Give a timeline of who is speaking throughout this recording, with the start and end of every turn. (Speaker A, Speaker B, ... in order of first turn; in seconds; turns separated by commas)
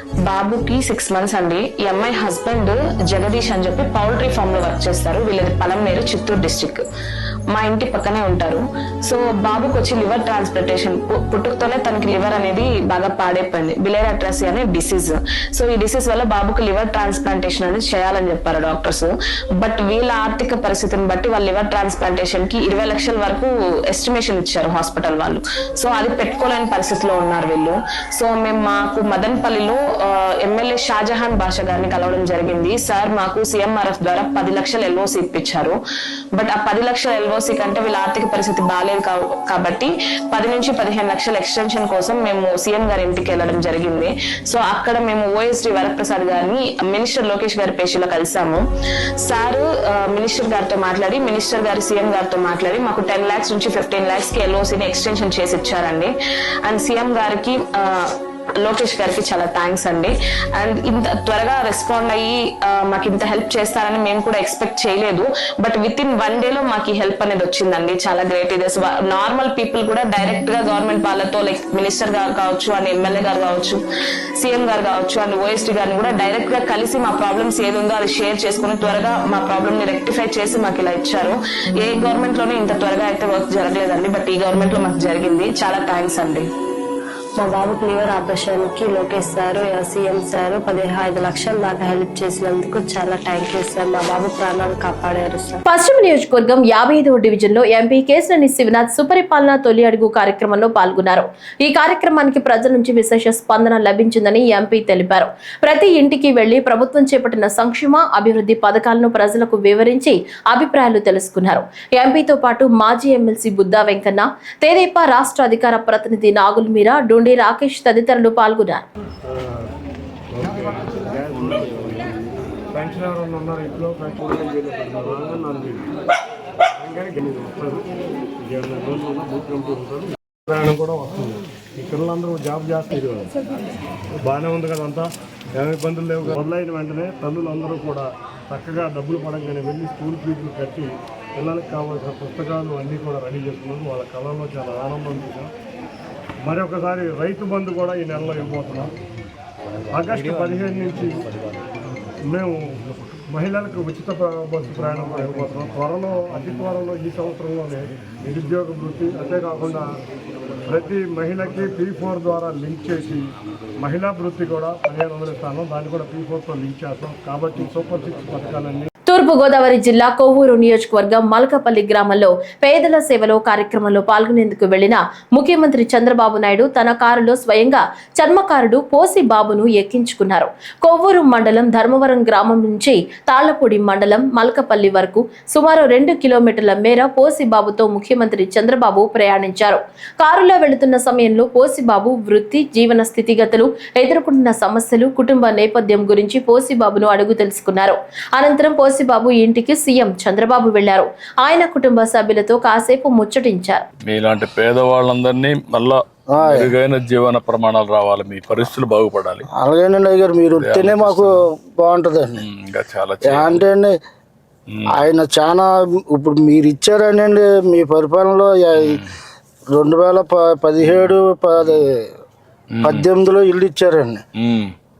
Speaker A: 0.2-6.8, Speaker A: 7.5-19.1, Speaker A: 19.6-35.8, Speaker A: 36.3-48.6, Speaker A: 49.2-56.1, Speaker A: 56.6-58.1, Speaker A: 58.6-73.8, Speaker A: 74.4-86.5, Speaker B: 87.4-95.6, Speaker C: 95.7-118.9, Speaker D: 120.4-122.1, Speaker D: 122.7-125.8, Speaker D: 126.9-127.8, Speaker D: 128.5-133.3, Speaker D: 134.2-135.1, Speaker D: 135.6-145.5, Speaker D: 146.4-148.9, Speaker D: 149.9-151.1, Speaker D: 153.3-159.8, Speaker D: 160.7-163.2, Speaker D: 163.8-168.9, Speaker C: 169.1-203.8, Speaker E: 204.1-209.4, Speaker F: 206.3-206.7, Speaker F: 209.5-212.4, Speaker E: 210.6-211.3, Speaker E: 212.4-213.6, Speaker F: 213.3-213.9, Speaker F: 214.9-219.0, Speaker E: 218.8-219.1, Speaker F: 219.7-221.9, Speaker E: 220.9-221.1, Speaker E: 222.8-223.1, Speaker F: 222.8-224.2, Speaker E: 224.4-224.7